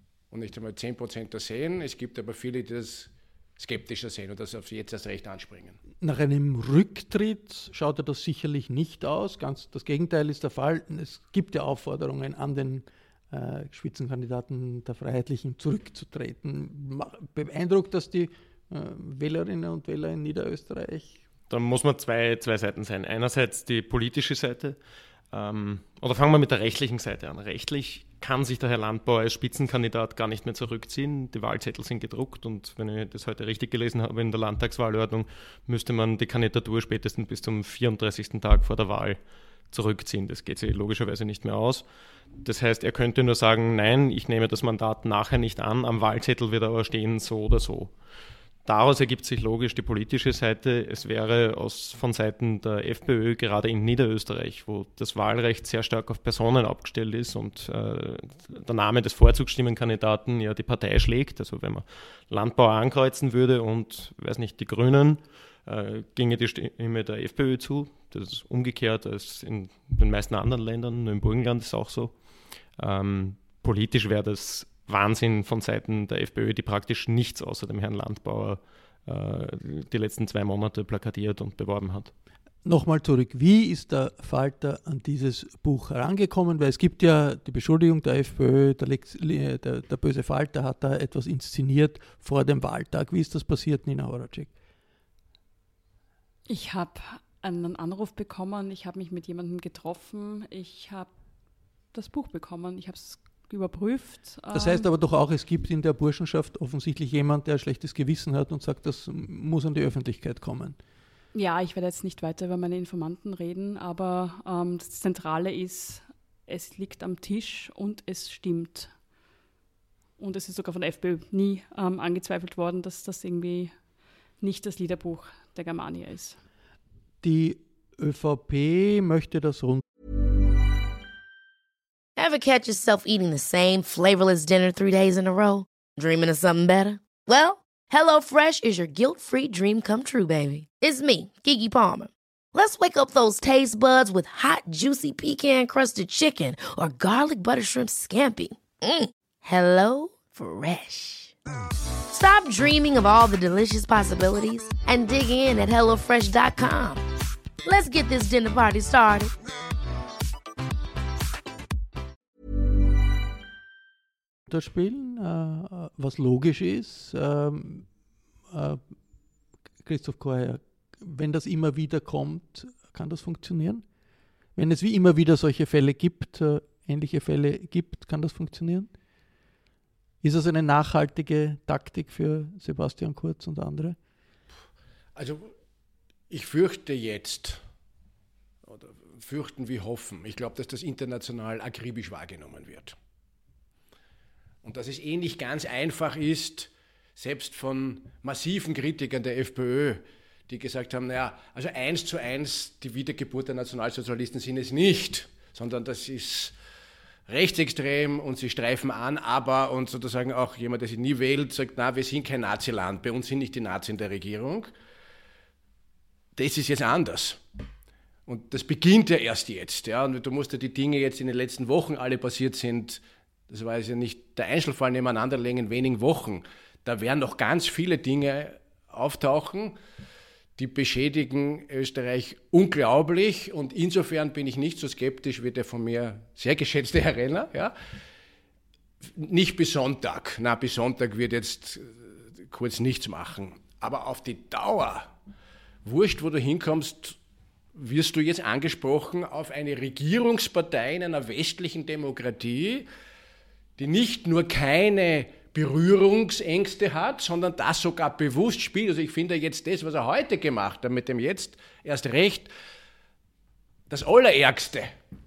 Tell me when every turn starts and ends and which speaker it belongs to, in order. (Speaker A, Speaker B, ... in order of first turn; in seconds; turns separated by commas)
Speaker A: 0.3-5.8, Speaker B: 6.0-21.2, Speaker C: 21.5-24.8, Speaker C: 25.3-39.2, Speaker C: 39.7-41.9, Speaker C: 42.4-47.9, Speaker C: 48.6-72.1, Speaker C: 72.8-82.1, Speaker B: 82.6-94.5, Speaker D: 96.5-101.1, Speaker D: 101.9-104.9, Speaker B: 104.5-110.8, Speaker D: 111.3-118.9, Speaker D: 120.2-123.7, Speaker D: 124.4-126.4, Speaker B: 127.2-129.8, Speaker E: 132.2-151.3, Speaker E: 152.1-157.0, Speaker E: 157.7-159.3, Speaker B: 164.5-167.9, Speaker B: 168.5-168.8, Speaker B: 169.8-173.8, Speaker B: 174.6-178.9, Speaker B: 180.2-184.0, Speaker A: 185.2-185.5, Speaker A: 186.3-187.6, Speaker A: 188.7-193.0, Speaker A: 194.6-206.6, Speaker A: 207.3-214.7, Speaker A: 216.3-217.4, Speaker A: 218.3-229.8, Speaker A: 230.6-237.7, Speaker A: 239.0-245.1, Speaker A: 245.8-247.2, Speaker A: 247.7-252.9, Speaker A: 253.8-262.5, Speaker A: 263.9-264.9